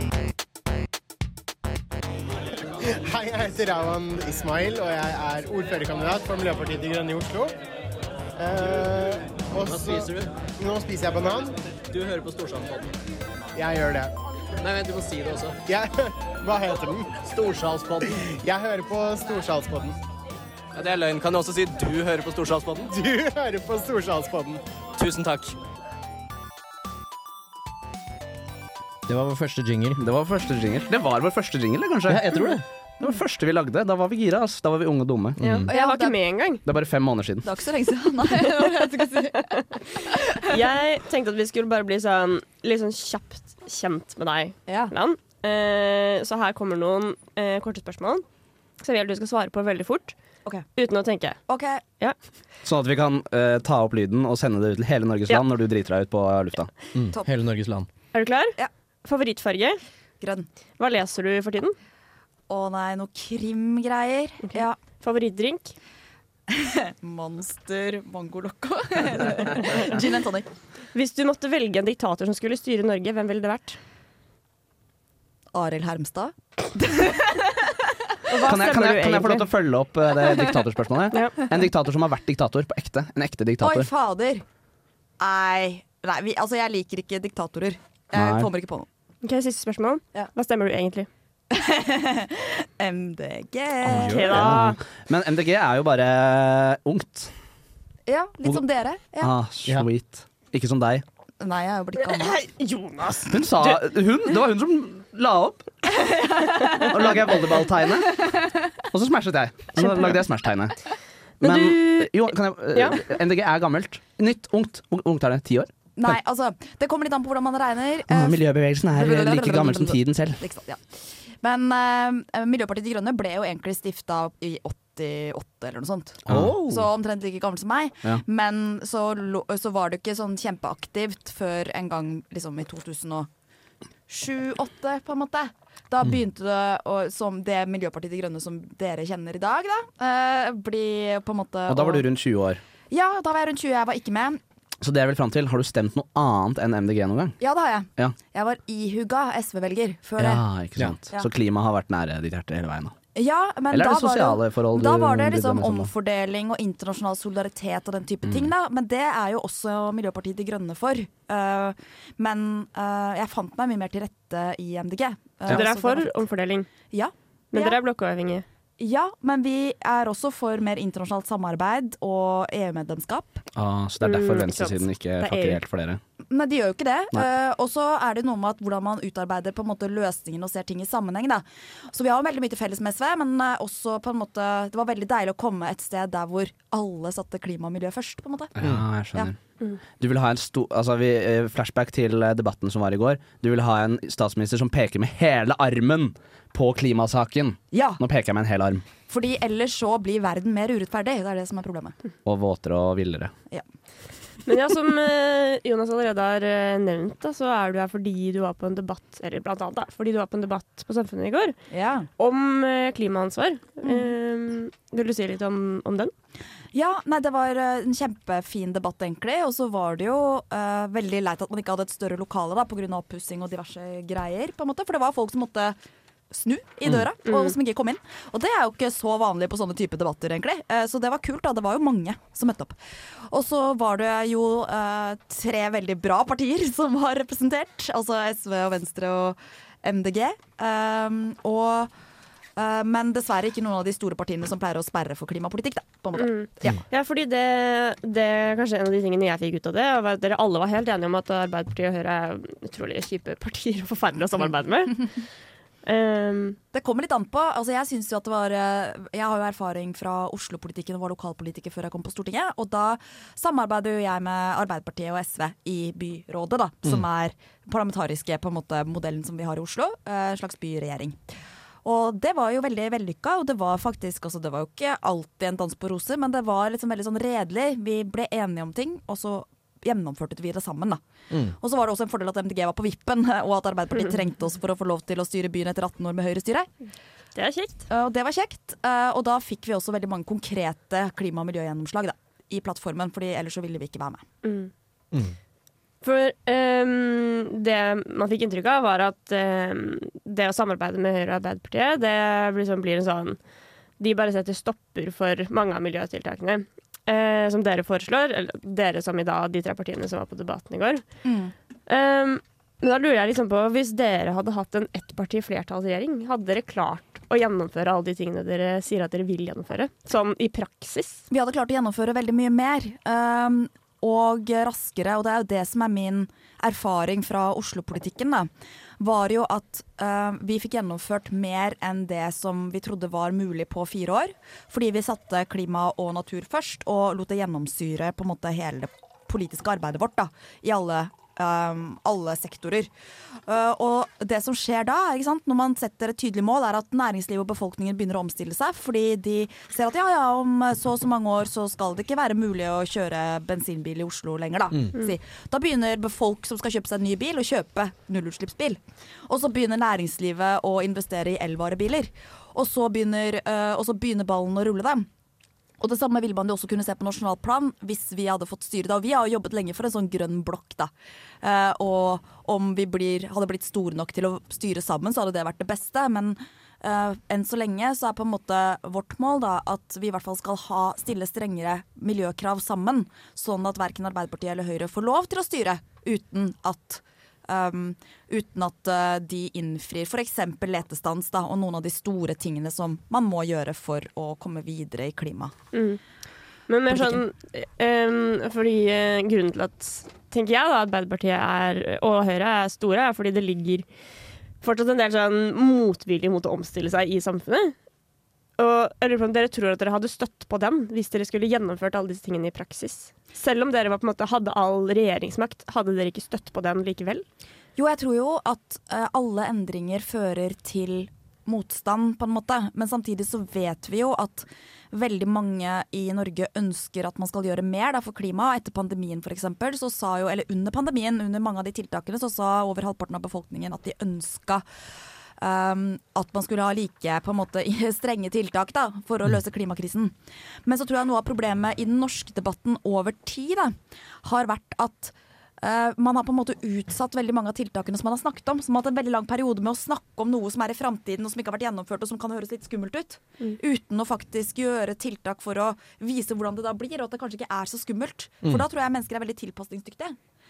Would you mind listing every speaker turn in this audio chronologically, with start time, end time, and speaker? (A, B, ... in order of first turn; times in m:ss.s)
0:02.8-0:07.5 A
0:08.4-0:11.6 A
0:09.6-0:10.3 B
0:11.9-0:12.9 B
0:13.5-0:14.1 A
0:14.6-0:15.6 B
0:15.6-0:17.2 A
0:17.2-0:18.2 B
0:18.1-0:20.0 A
0:20.7-0:22.9 B
0:22.8-0:24.6 A
0:25.0-0:25.6 B
0:29.1-0:30.0 C
0:30.0-0:35.7 D
0:32.1-0:32.6 C
0:35.4-0:35.6 C
0:35.4-0:36.6 E
0:35.7-0:36.2 F
0:36.6-0:37.5 D
0:37.4-0:40.6 F
0:40.5-0:48.2 E
0:44.7-0:44.9 F
0:48.8-0:50.2 E
0:50.8-0:51.4 E
0:51.5-0:51.8 F
0:52.6-0:56.7 D
0:56.9-0:57.9 C
0:58.1-0:59.8 E
1:00.2-1:00.5 F
1:00.8-1:01.7 E
1:02.5-1:04.8 F
1:04.4-1:05.7 E
1:06.5-1:10.5 F
1:10.9-1:13.8 E
1:15.5-1:18.0 F
1:18.3-1:19.5 E
1:18.4-1:23.9 D
1:23.6-1:24.4 F
1:25.2-1:28.9 F
1:28.1-1:28.5 D
1:29.2-1:31.1 E
1:31.5-1:34.4 F
1:33.8-1:34.6 C
1:33.9-1:34.8 E
1:34.2-1:37.3 D
1:38.1-1:39.3 F
1:39.2-1:41.0 D
1:41.4-1:42.4 F
1:42.0-1:43.8 E
1:43.3-1:45.7 D
1:45.9-1:47.6 F
1:46.8-1:48.2 D
1:48.2-1:48.6 F
1:48.9-1:50.8 D
1:51.4-1:56.2 D
1:51.4-1:52.1 E
1:52.7-1:53.0 E
1:56.0-1:58.4 F
1:58.1-2:00.4 D
1:58.9-2:00.8 F
2:01.4-2:13.3 F
2:06.3-2:06.8 D
2:06.3-2:06.8 C
2:14.1-2:22.0 F
2:21.7-2:22.6 D
2:22.9-2:24.4 F
2:24.8-2:27.4 D
2:27.4-2:30.4 F
2:30.2-2:33.0 D
2:33.1-2:46.2 F
2:33.7-2:35.9 D
2:38.2-2:38.5 D
2:45.5-2:46.7 E
2:46.9-2:47.8 F
2:47.5-2:48.4 E
2:48.8-2:53.4 F
2:53.5-2:56.0 D
2:54.0-2:55.6 E
2:56.3-3:08.6 F
3:08.6-3:09.4 D
3:10.0-3:18.8 D
3:17.7-3:18.0 F
3:19.1-3:22.0 F
3:22.2-3:23.3 D
3:24.4-3:31.5 E
3:31.7-3:32.1 F
3:32.2-3:36.1 E
3:36.7-3:45.8 F
3:46.3-3:52.8 F
3:47.2-3:47.5 E
3:53.3-4:01.9 F
4:02.6-4:06.8 F
4:06.1-4:15.1 E
4:15.8-4:16.6 E
4:16.7-4:31.2 F
4:31.8-4:41.0 F
4:41.6-4:46.7 F
4:47.4-4:47.9 E
4:47.9-4:54.2 F
4:54.4-4:54.7 E
4:56.0-5:03.4 E
5:04.0-5:11.0 E
5:11.2-5:11.5 F
5:11.9-5:21.3 E
5:21.3-5:28.5 F
5:29.0-5:42.9 F
5:43.5-6:05.1 F
6:05.8-6:10.9 F
6:11.4-6:35.5 F
6:35.7-6:36.0 E
6:36.7-6:43.8 E
6:44.6-6:47.7 E
6:48.6-6:57.2 E
6:57.8-7:14.6 F
7:15.4-7:20.1 F
7:20.6-7:40.2 F